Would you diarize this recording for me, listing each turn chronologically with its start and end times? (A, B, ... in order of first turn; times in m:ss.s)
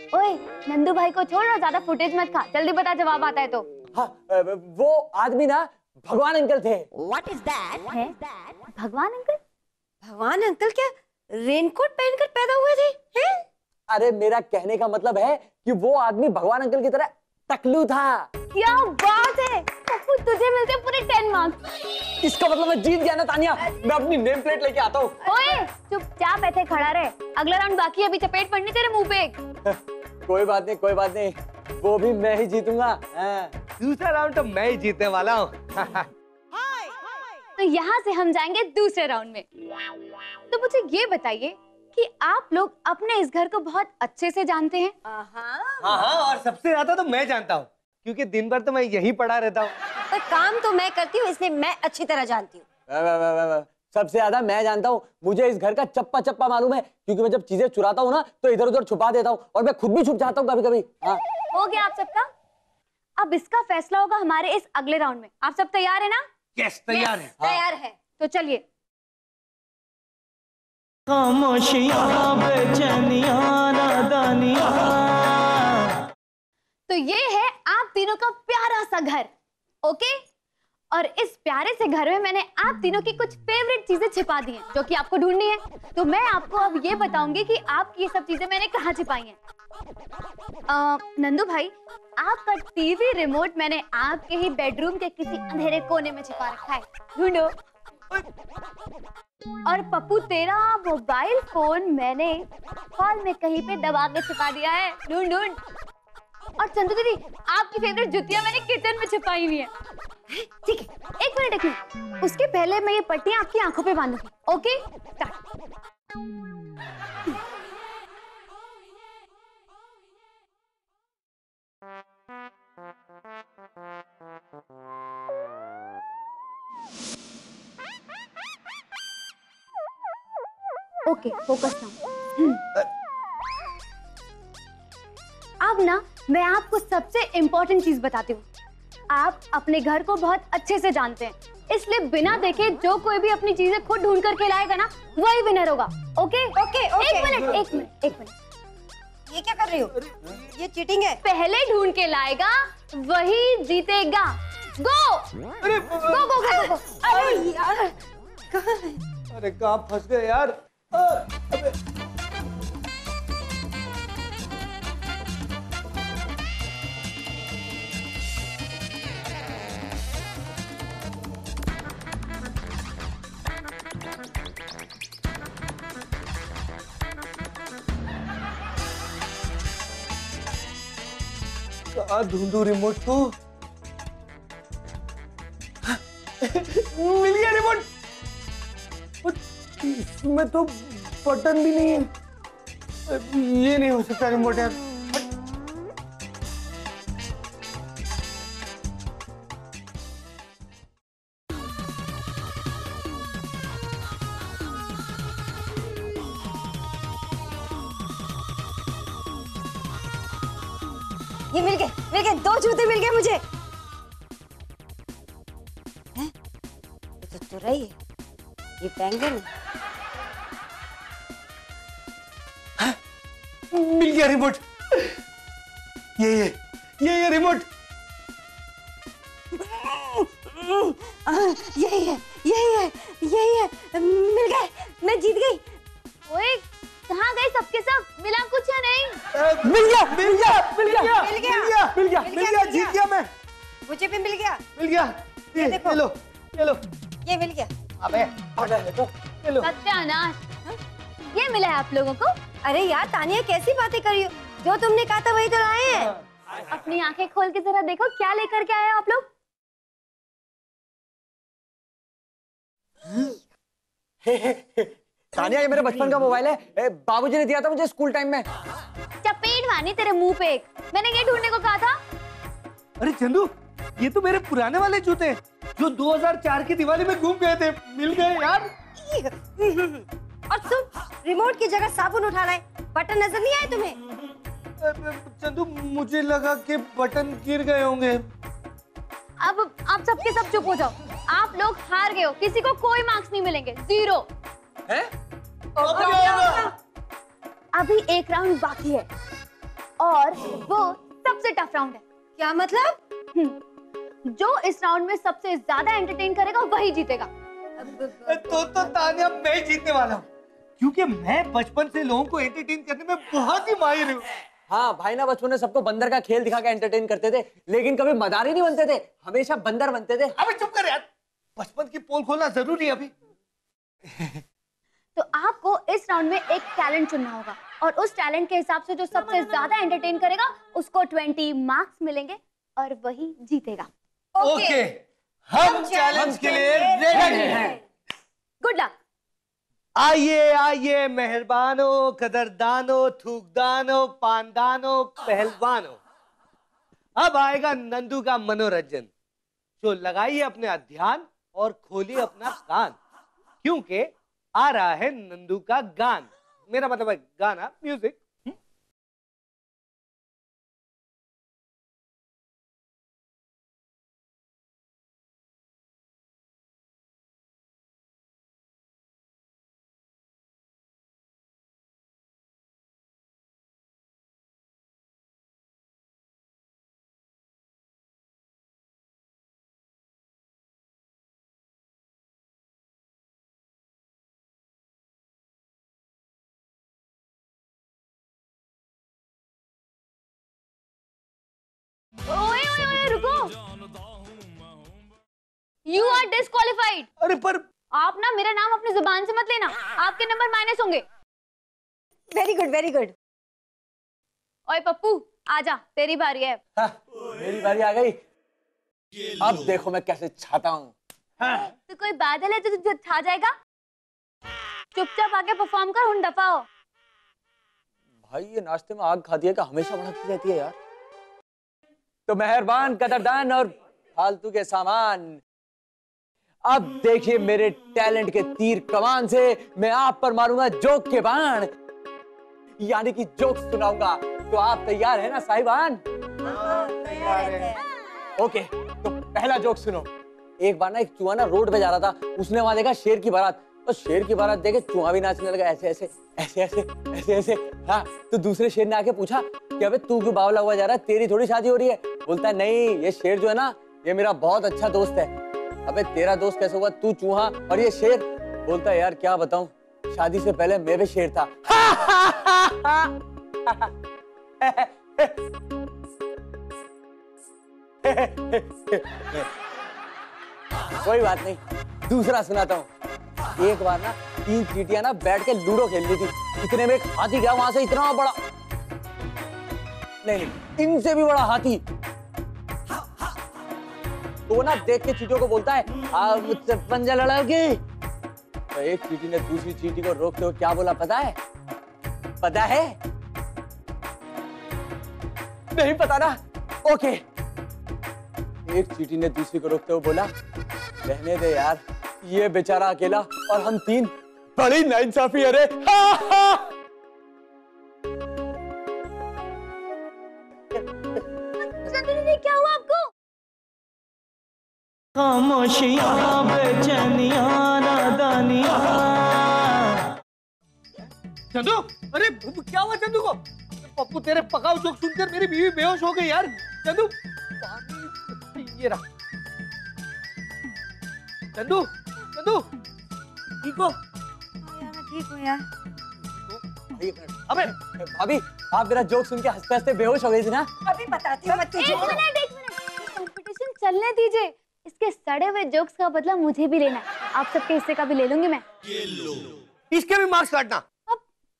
0:00.1-0:03.6 A
0:03.9-0:06.9 B
0:07.8-0:08.1 A
0:08.8-0:09.4 A
0:10.0-0:13.4 C
0:13.9-0:18.3 B
0:18.5-0:21.6 A
0:22.2-0:25.2 B
0:25.2-0:29.4 A
0:29.6-0:33.5 B
0:33.8-0:36.1 D
0:37.6-0:39.4 A
0:40.5-0:44.9 A
0:45.0-0:46.0 C
0:45.8-0:49.7 D
0:50.1-0:52.6 C
0:52.9-1:01.2 B
1:01.5-1:02.3 A
1:03.2-1:06.2 A
1:06.6-1:07.3 D
1:07.4-1:07.9 C
1:08.2-1:08.6 A
1:11.1-1:15.9 E
1:16.9-1:19.3 A
1:19.8-1:20.2 A
1:20.9-1:29.4 A
1:30.7-1:37.5 A
1:39.6-1:42.5 A
1:43.0-1:45.6 A
1:46.6-1:49.7 A
1:50.3-1:50.9 C
1:51.2-1:55.4 A
2:11.0-2:12.6 A
2:15.6-2:18.4 A
2:19.1-2:28.3 A
2:26.6-2:27.6 C
2:29.3-2:31.2 C
2:29.9-2:30.4 D
2:31.2-2:35.3 A
2:35.6-2:36.3 D
2:36.0-2:36.8 A
2:36.4-2:37.9 C
2:37.1-2:37.4 D
2:38.5-2:39.0 C
2:39.3-2:41.7 D
3:01.9-3:03.3 D
3:05.8-3:07.9 D
3:09.2-3:12.0 D
3:13.1-3:15.2 D
3:31.5-3:33.4 C
3:37.2-3:38.0 C
3:38.8-3:39.5 C
3:43.7-3:45.2 D
3:46.2-3:47.6 D
3:49.5-3:55.7 C
3:56.3-3:59.2 A
3:59.3-4:03.3 D
3:59.6-4:01.1 B
4:01.0-4:03.0 C
4:01.9-4:02.3 B
4:03.8-4:04.6 C
4:04.8-4:06.8 D
4:05.5-4:06.0 C
4:07.2-4:07.7 C
4:08.0-4:08.5 D
4:08.6-4:09.1 B
4:09.4-4:09.7 D
4:09.6-4:10.4 A
4:11.3-4:12.3 A
4:12.6-4:16.1 C
4:16.7-4:19.3 A
4:24.2-4:28.5 B
4:25.4-4:26.2 D
4:29.2-4:32.0 A
4:33.0-4:38.7 D
4:39.0-4:44.0 C
4:44.8-4:48.2 D
4:49.4-4:54.3 A
4:55.7-4:56.7 C
4:55.8-4:56.7 D
4:57.7-4:59.1 A
5:00.0-5:02.0 A
5:02.4-5:03.0 C
5:04.2-5:07.3 A
5:07.8-5:08.8 C
5:08.2-5:10.2 D
5:10.8-5:14.2 D
5:14.7-5:20.4 B
5:20.4-5:21.0 D
5:21.6-5:23.1 D
5:24.1-5:24.4 D
5:25.2-5:33.9 A
5:34.3-5:34.8 C
5:34.4-5:37.8 D
5:35.6-5:37.8 C
5:36.1-5:37.8 B
5:38.6-5:38.9 A
5:40.0-5:46.0 D
5:47.2-5:49.1 D
5:49.8-5:53.0 D
5:53.6-5:58.5 D
6:32.3-6:33.5 A
6:35.9-6:37.1 A
6:37.2-6:37.6 D
6:37.9-6:41.0 A
6:42.3-6:43.1 C
6:44.7-6:46.6 A
6:46.8-6:48.2 B
6:49.4-6:50.9 B
6:51.9-6:53.5 A
6:54.9-6:56.6 A
6:58.3-7:00.8 B
7:02.3-7:05.4 B
7:06.6-7:11.7 B
7:12.8-7:16.0 B
7:16.4-7:17.7 D
7:16.4-7:17.8 C
7:18.4-7:20.1 B
7:20.6-7:35.3 B
7:35.8-7:43.1 B
7:43.6-7:43.9 B
7:44.6-7:45.3 B
7:48.0-7:49.5 B
7:51.0-7:52.9 B
7:53.6-7:58.4 B
8:00.2-8:01.8 B
8:04.5-8:07.8 B
8:08.7-8:11.4 B
8:12.4-8:13.0 B
8:15.7-8:17.2 B
8:18.7-8:20.3 B
8:21.0-8:26.7 B
8:31.6-8:33.1 A
8:35.2-8:40.1 E
8:41.5-8:49.0 D
8:51.6-8:52.7 D
8:53.6-8:54.0 D
8:54.6-8:55.7 C
8:56.9-9:00.7 B
9:00.8-9:02.2 C
9:01.7-9:08.6 A
9:09.1-9:10.8 D